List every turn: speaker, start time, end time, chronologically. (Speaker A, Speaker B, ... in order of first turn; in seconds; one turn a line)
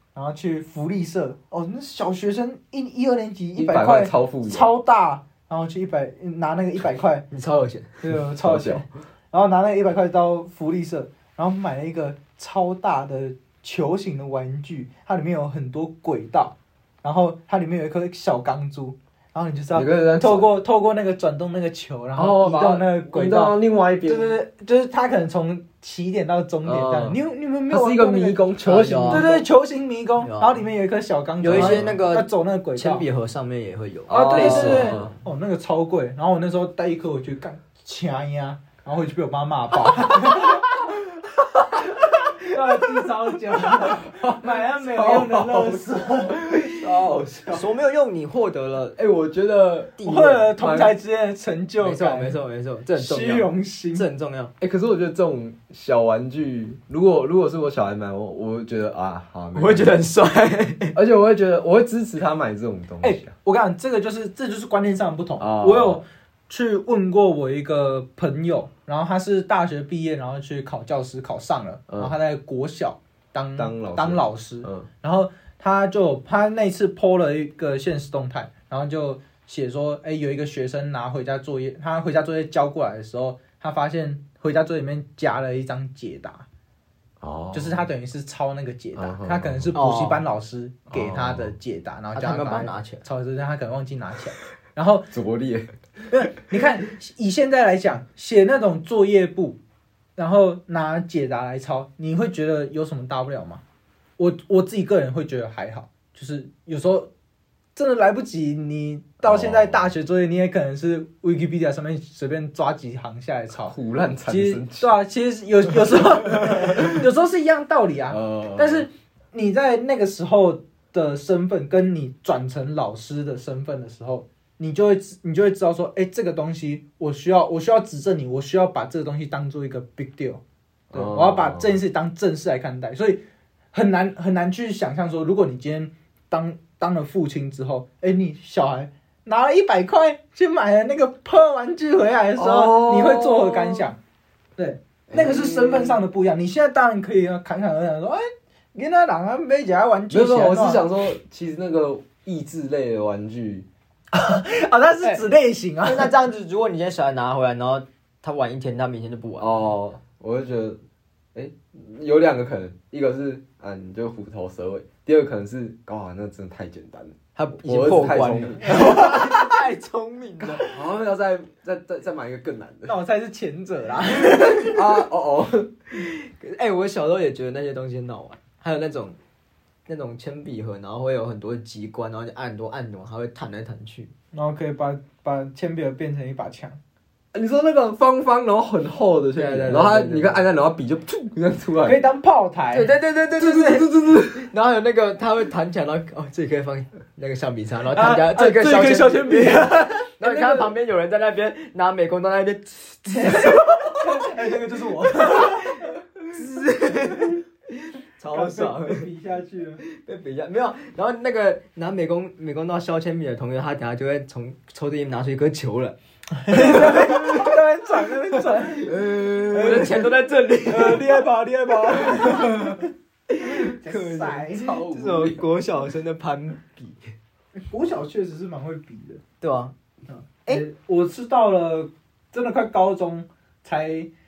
Speaker A: 0.1-7.3
Speaker B: 3.6-4.7
Speaker C: 7.3-8.0
Speaker A: 8.0-28.4
Speaker B: 8.3-8.8
Speaker B: 19.7-20.5
Speaker B: 22.2-24.4
Speaker B: 26.6-29.4
Speaker C: 28.6-29.3
Speaker A: 29.1-33.0
Speaker C: 30.2-30.6
Speaker C: 31.4-35.1
Speaker B: 31.4-32.0
Speaker B: 34.1-35.1
Speaker A: 34.1-40.9
Speaker A: 42.0-46.8
Speaker B: 43.7-47.7
Speaker C: 47.5-49.0
Speaker B: 49.0-51.0
Speaker C: 50.0-50.5
Speaker A: 50.0-52.4
Speaker C: 51.8-54.5
Speaker A: 53.0-54.1
Speaker B: 54.6-60.0
Speaker C: 59.5-61.0
Speaker B: 61.0-63.3
Speaker A: 63.0-86.5
Speaker B: 65.4-66.0
Speaker B: 71.9-72.2
Speaker B: 73.6-74.9
Speaker B: 87.2-87.9
Speaker A: 87.5-95.1
Speaker B: 89.0-89.8
Speaker C: 89.7-90.2
Speaker B: 90.9-91.5
Speaker C: 92.1-93.0
Speaker B: 95.1-95.7
Speaker A: 96.1-99.6
Speaker A: 100.2-103.6
Speaker A: 104.2-107.1
Speaker A: 107.8-113.8
Speaker B: 109.2-109.9
Speaker B: 113.7-114.9
Speaker A: 114.3-130.4
Speaker B: 116.6-116.9
Speaker B: 118.1-118.9
Speaker B: 130.9-131.8
Speaker A: 130.9-133.2
Speaker A: 133.7-144.0
Speaker B: 142.4-143.9
Speaker A: 144.6-150.8
Speaker B: 145.1-146.0
Speaker B: 150.1-153.7
Speaker A: 154.1-156.1
Speaker C: 155.8-159.6
Speaker B: 159.4-160.8
Speaker B: 161.3-169.4
Speaker C: 167.4-170.7
Speaker A: 168.7-169.1
Speaker B: 170.6-173.0
Speaker A: 172.9-175.0
Speaker B: 174.3-175.7
Speaker C: 176.0-179.2
Speaker C: 179.9-184.1
Speaker A: 184.3-186.8
Speaker B: 187.3-192.0
Speaker C: 189.4-190.4
Speaker A: 191.8-192.9
Speaker C: 192.7-199.7
Speaker B: 193.4-194.5
Speaker A: 197.9-199.7
Speaker B: 198.8-200.7
Speaker C: 200.2-203.6
Speaker A: 203.1-206.0
Speaker C: 205.2-209.1
Speaker A: 208.3-209.8
Speaker C: 209.8-216.0
Speaker A: 216.4-220.1
Speaker C: 216.5-217.6
Speaker C: 218.4-221.2
Speaker B: 219.6-219.9
Speaker A: 220.7-222.9
Speaker B: 221.7-222.3
Speaker C: 222.1-222.7
Speaker C: 223.3-227.1
Speaker A: 223.4-224.8
Speaker B: 224.5-225.4
Speaker A: 227.7-229.2
Speaker C: 229.4-229.8
Speaker A: 230.1-234.1